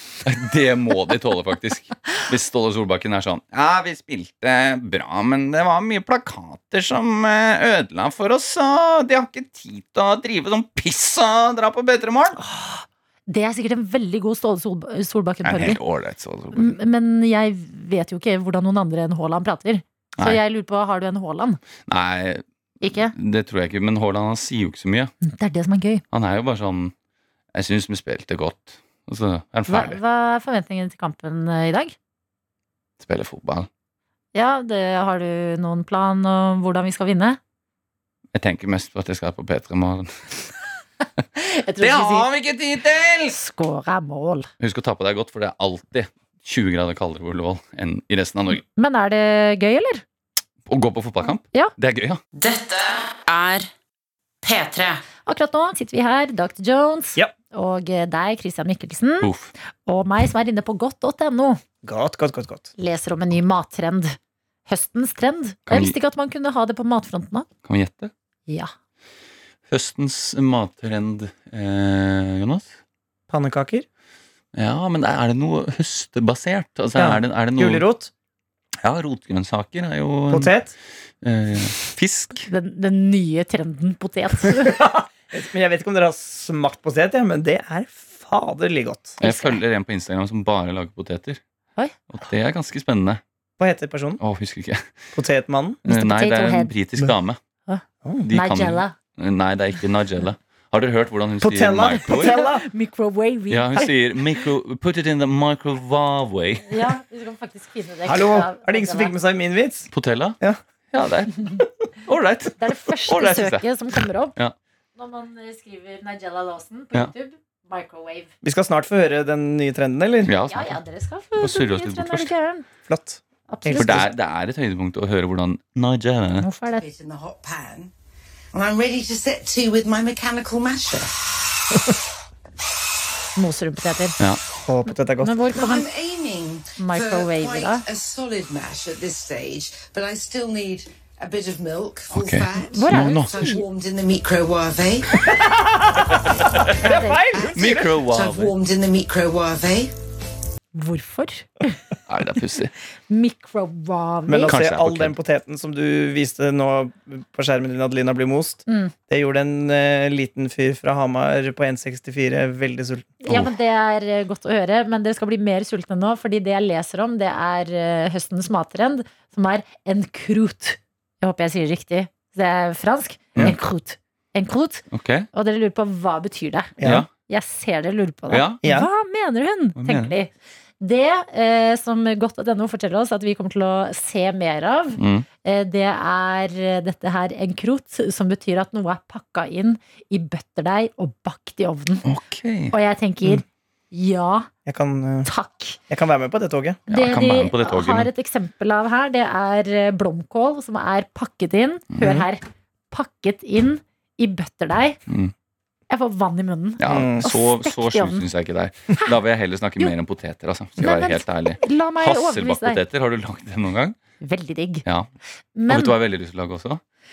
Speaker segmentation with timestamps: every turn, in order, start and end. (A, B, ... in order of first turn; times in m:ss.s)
0:00.2-0:12.4 A
0:12.4-0:15.8 B
0:15.4-0:16.8 A
0:16.5-0:21.6 B
0:21.9-0:25.1 A
0:22.8-0:23.1 B
0:25.2-0:26.0 B
0:26.1-0:26.9 A
0:27.5-0:30.0 A
0:29.7-0:31.9 B
0:33.0-0:33.7 A
0:34.3-0:37.4 B
0:38.3-0:40.4 A
0:41.4-0:42.3 B
0:41.8-0:43.4 A
0:43.3-0:44.5 B
0:44.6-0:48.6 A
0:48.7-0:50.0 B
0:50.7-0:52.2 A
0:52.3-0:53.7 C
0:54.4-0:55.0 C
0:55.2-0:59.3 B
0:59.2-0:59.5 A
0:59.8-1:01.6 B
1:01.8-1:02.7 D
1:02.8-1:04.2 B
1:04.7-1:07.5 B
1:05.7-1:05.9 A
1:07.6-1:08.1 A
1:09.7-1:12.7 A
1:13.3-1:13.8 D
1:14.5-1:17.8 A
1:17.0-1:18.1 D
1:18.8-1:20.5 A
1:20.3-1:20.7 D
1:21.2-1:22.5 A
1:22.5-1:24.8 B
1:24.7-1:29.2 D
1:29.2-1:29.6 B
1:29.2-1:31.4 A
1:32.1-1:33.2 A
1:33.6-1:34.2 D
1:34.2-1:34.9 A
1:35.1-1:35.8 D
1:35.8-1:37.4 A
1:35.9-1:36.7 B
1:37.7-1:38.9 B
1:38.2-1:42.4 A
1:41.4-1:42.6 D
1:42.0-1:43.9 B
1:43.5-1:46.9 A
1:46.7-1:49.1 B
1:48.1-1:50.6 D
1:49.9-1:50.4 A
1:50.9-1:53.6 A
1:52.6-1:54.4 B
1:55.0-1:58.3 B
1:58.4-2:00.3 D
2:00.2-2:00.8 A
2:00.4-2:02.6 B
2:01.4-2:02.3 A
2:02.9-2:04.0 D
2:03.5-2:04.0 B
2:03.8-2:06.5 A
2:06.4-2:06.8 B
2:06.8-2:07.9 E
2:08.5-2:11.1 E
2:13.4-2:14.2 B
2:14.6-2:15.3 D
2:15.2-2:15.9 B
2:15.5-2:25.2 E
2:16.8-2:17.8 B
2:22.1-2:23.5 A
2:22.7-2:23.6 B
2:25.2-2:26.1 D
2:26.8-2:27.9 D
2:26.8-2:27.3 B
2:26.8-2:29.9 E
2:27.5-2:28.5 A
2:30.7-2:31.8 B
2:32.1-2:32.7 A
2:33.1-2:34.5 B
2:34.3-2:43.2 D
2:34.4-2:35.1 A
2:43.2-2:56.7 B
2:54.9-2:55.3 A
2:56.8-2:57.0 D
2:56.8-2:57.1 A
2:57.3-3:12.0 B
2:58.3-2:58.6 A
2:58.6-2:58.9 D
2:59.8-3:00.1 A
3:05.0-3:05.2 A
3:12.0-3:12.7 A
3:12.7-3:14.5 B
3:14.6-3:15.3 D
3:15.2-3:15.8 B
3:15.9-3:16.8 D
3:16.9-3:18.1 A
3:16.9-3:25.0 B
3:21.9-3:22.3 A
3:25.1-3:25.3 A
3:25.9-3:28.2 B
3:26.8-3:34.0 A
3:26.8-3:27.2 D
3:30.8-3:32.8 B
3:34.2-3:34.8 B
3:35.6-3:36.0 B
3:35.7-3:36.8 A